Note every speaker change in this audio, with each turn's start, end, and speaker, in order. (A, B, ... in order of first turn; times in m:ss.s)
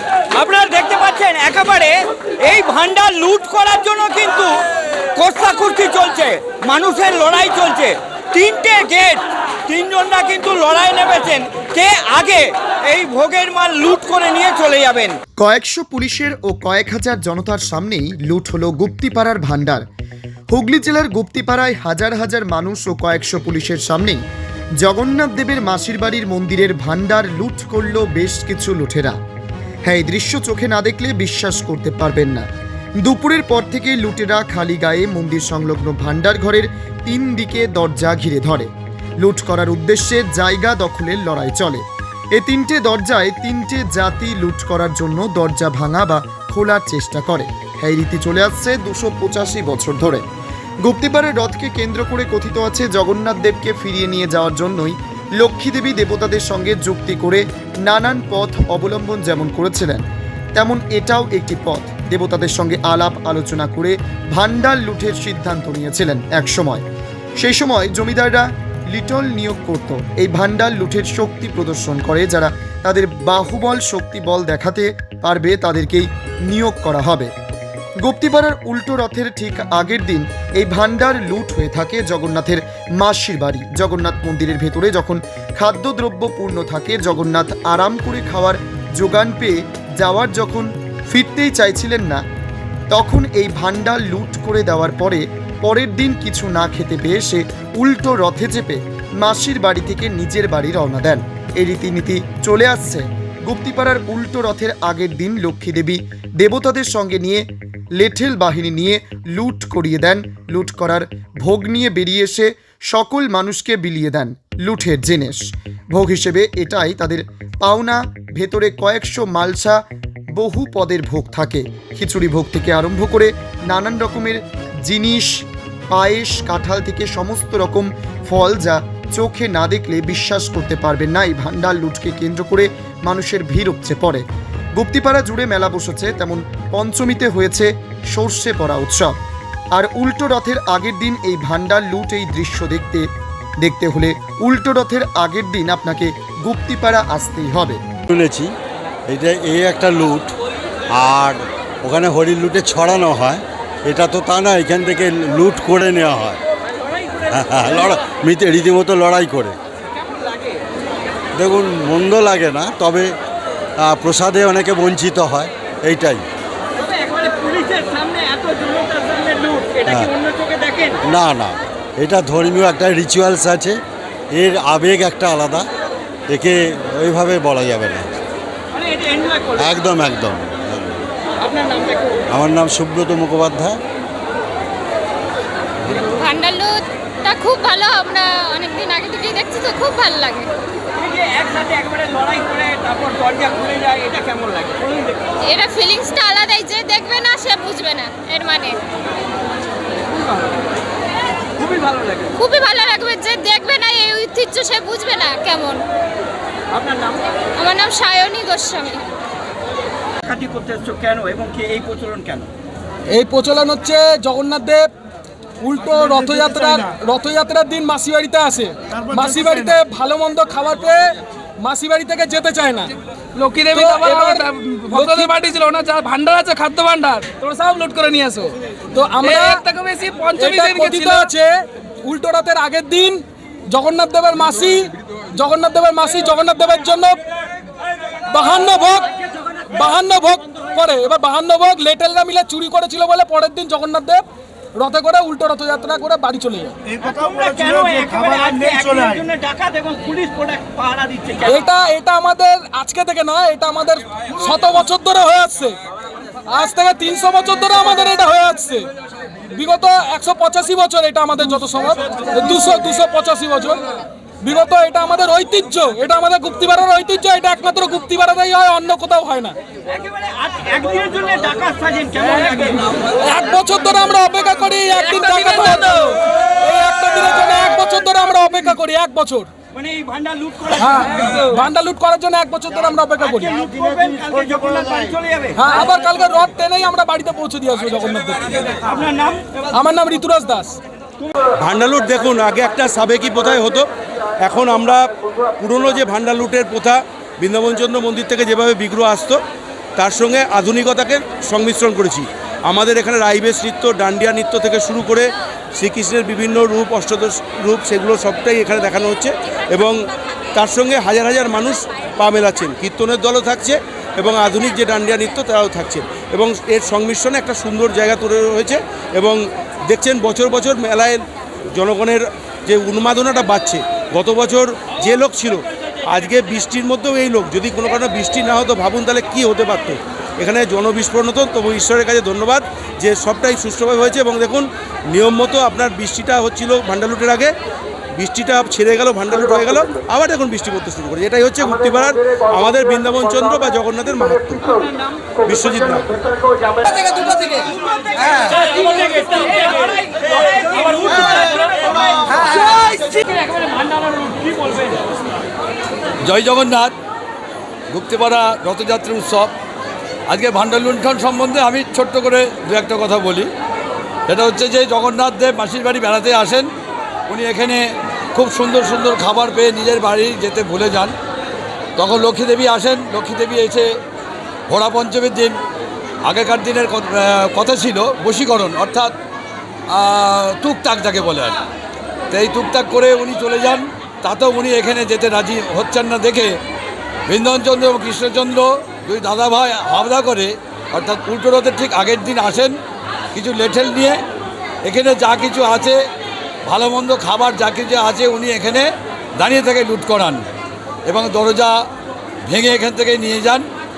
0:00.3-0:04.6 A
0:05.2-0:15.2 A
0:15.4-0:19.8 B
0:20.5-0:24.2 B
0:24.8-0:29.2 B
0:29.8-0:32.4 B
0:33.0-0:50.2 B
0:50.8-1:00.0 B
1:00.5-1:06.8 B
1:07.4-1:17.3 B
1:18.0-1:32.2 B
1:32.9-1:59.8 B
2:00.3-2:19.2 B
2:19.7-2:23.1 B
2:23.6-2:27.8 B
2:28.1-2:28.5 C
2:29.1-2:30.3 C
2:30.9-2:36.4 C
2:36.8-2:37.8 A
2:37.3-2:39.6 C
2:40.0-2:40.6 A
2:41.4-2:43.1 C
2:43.8-2:46.2 C
2:46.8-2:51.0 A
2:51.0-2:53.8 C
2:54.3-2:55.7 C
2:56.3-2:58.1 C
2:58.7-2:59.7 A
2:59.6-3:01.1 C
3:01.4-3:02.1 A
3:02.3-3:03.8 C
3:06.1-3:06.7 D
3:07.2-3:10.5 D
3:11.0-3:15.3 A
3:15.4-3:18.8 D
3:21.6-3:22.3 A
3:22.4-3:25.8 D
3:26.7-3:27.2 A
3:27.6-3:29.0 D
3:30.2-3:32.5 A
3:33.1-3:34.9 E
3:35.6-3:42.9 E
3:43.4-3:45.5 F
3:43.7-3:47.3 E
3:47.8-3:48.4 E
3:48.9-3:49.6 E
3:49.2-3:51.2 F
3:50.4-3:57.2 E
3:58.2-3:59.1 E
3:59.7-4:06.7 E
4:07.0-4:11.6 A
4:11.4-4:15.8 E
4:16.5-4:18.9 E
4:19.4-4:29.6 E
4:29.9-4:33.0 A
4:33.2-4:39.5 E
4:35.1-4:35.9 A
4:39.7-4:41.5 A
4:40.8-4:43.5 E
4:43.2-4:45.8 A
4:45.6-4:48.7 E
4:48.8-4:49.6 A
4:49.7-4:50.8 E
4:51.6-4:53.9 G
4:54.4-4:59.4 G
5:00.0-5:10.0 G
5:10.5-5:21.2 G
5:21.7-5:37.5 G
5:38.2-5:44.7 G
5:44.6-5:45.4 A
5:45.4-5:46.1 G
5:46.8-5:55.0 A
5:56.2-5:56.9 H
5:57.9-5:59.5 H
6:00.3-6:03.5 H
6:04.3-6:06.7 H
6:07.3-6:11.1 H
6:12.0-6:13.9 H
6:14.7-6:15.6 H
6:16.2-6:19.1 H
6:19.9-6:21.6 H
6:22.3-6:26.6 H
6:27.3-6:32.7 H
6:33.3-6:34.2 H
6:34.8-6:36.0 H
6:36.6-6:40.5 H
6:41.1-6:41.8 H
6:42.4-6:43.7 H